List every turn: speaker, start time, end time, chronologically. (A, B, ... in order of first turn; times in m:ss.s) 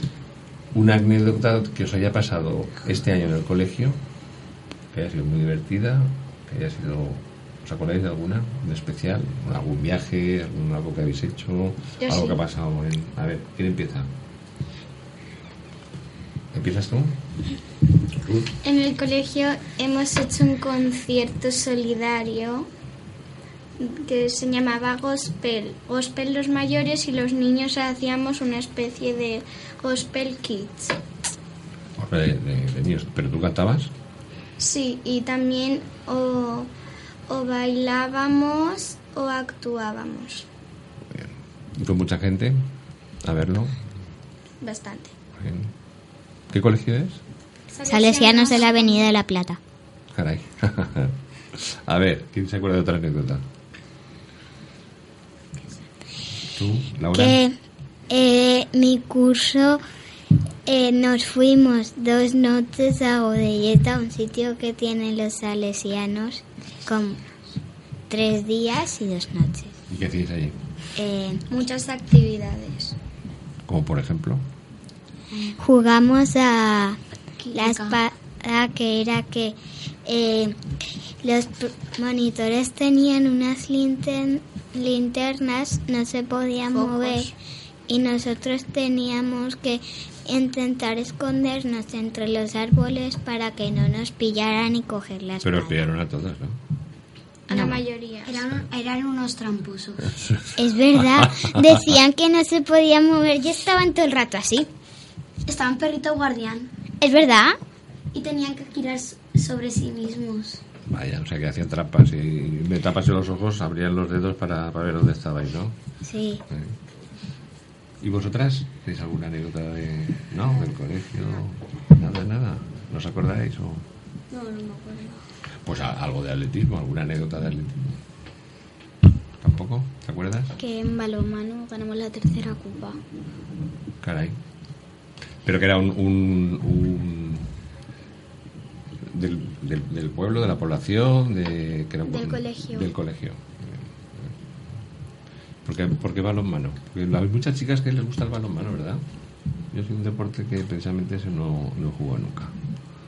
0:00.7-0:04.0 A
0:04.9-0:14.1 A
0:12.0-0:12.4 B
0:16.5-0:17.2 A
0:18.2-0:18.5 A
0:18.6-0:22.7 B
0:23.8-0:31.0 B
0:32.0-0:33.9 A
0:34.6-0:36.7 B
0:37.3-0:40.5 B
0:41.1-0:42.6 A
0:43.2-0:43.8 A
0:44.6-0:45.1 B
0:45.4-0:45.7 A
0:46.5-0:47.2 A
0:47.7-0:49.0 B
0:47.9-0:49.6 C
0:50.1-0:53.4 A
0:56.5-0:57.4 A
0:57.1-0:57.6 C
0:58.1-0:59.8 C
1:00.6-1:07.2 C
1:08.1-1:09.7 C
1:09.9-1:10.6 A
1:11.0-1:11.4 C
1:11.5-1:13.0 B
1:13.7-1:14.4 A
1:15.6-1:17.0 C
1:17.4-1:18.0 D
1:17.5-1:20.6 C
1:21.2-1:27.3 C
1:26.7-1:27.2 D
1:27.9-1:35.8 C
1:35.4-1:36.6 A
1:37.5-1:38.4 B
1:37.5-1:37.8 C
1:38.2-1:40.1 D
1:40.6-1:44.7 C
1:40.9-1:41.6 A
1:45.4-1:46.7 D
1:47.0-1:47.6 C
1:48.1-1:50.6 D
1:50.9-1:55.8 A
1:56.0-1:56.4 C
1:56.5-1:56.8 A
1:58.0-2:03.8 A
2:04.3-2:05.2 D
2:05.6-2:08.0 A
2:09.4-2:10.5 A
2:10.6-2:13.0 E
2:14.0-2:14.4 A
2:15.4-2:17.5 A
2:19.0-2:24.4 A
2:22.0-2:22.9 E
2:25.6-2:29.0 A
2:29.7-2:32.5 A